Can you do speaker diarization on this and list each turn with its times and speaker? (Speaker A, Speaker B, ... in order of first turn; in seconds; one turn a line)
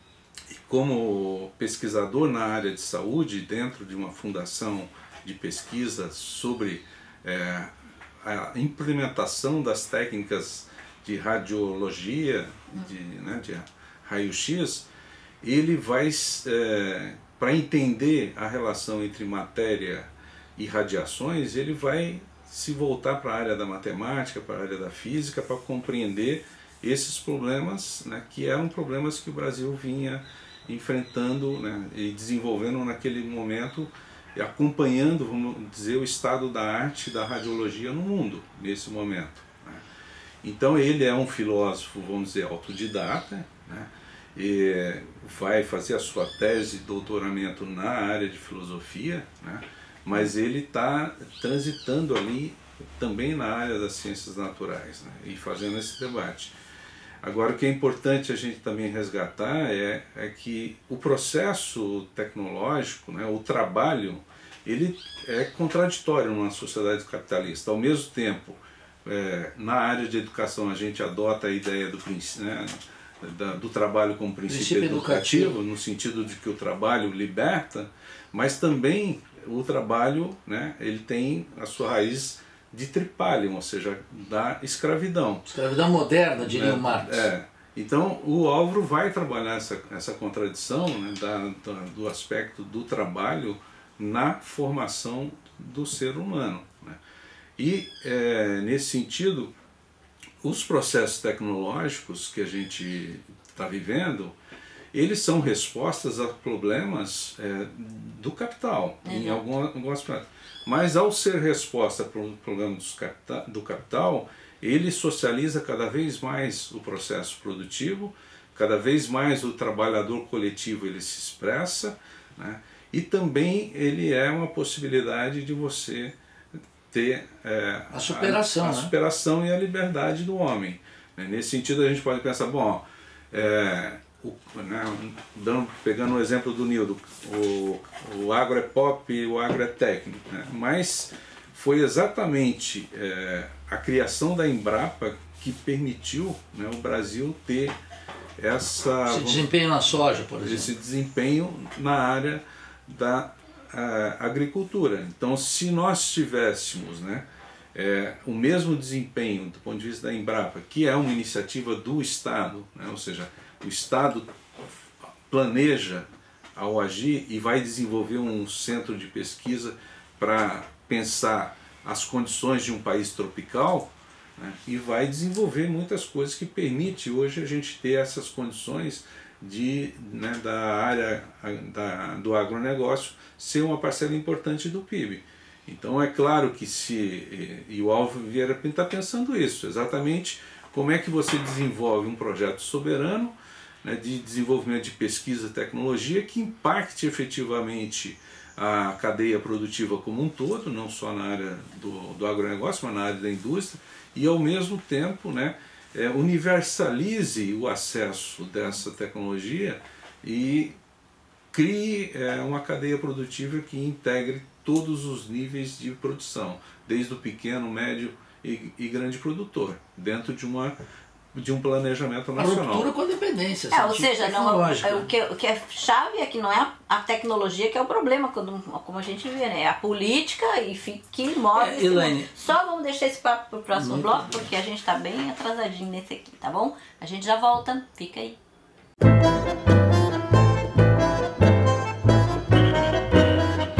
Speaker A: 0.5-14.9
Speaker A: 15.4-39.8
Speaker A: 40.4-56.5
Speaker A: 57.2-85.5
Speaker B: 74.5-75.6
Speaker B: 85.5-87.3
Speaker A: 86.4-97.0
Speaker A: 97.6-99.5
Speaker A: 100.4-104.3
Speaker A: 104.9-126.2
Speaker C: 109.0-109.4
Speaker A: 126.9-147.8
Speaker B: 127.9-128.9
Speaker A: 148.4-149.5
Speaker B: 149.1-150.7
Speaker A: 150.4-164.7
Speaker A: 165.3-210.8
Speaker A: 211.5-220.8
Speaker A: 221.3-222.9
Speaker B: 222.4-225.1
Speaker C: 223.7-238.4
Speaker B: 231.5-232.3
Speaker B: 233.7-234.4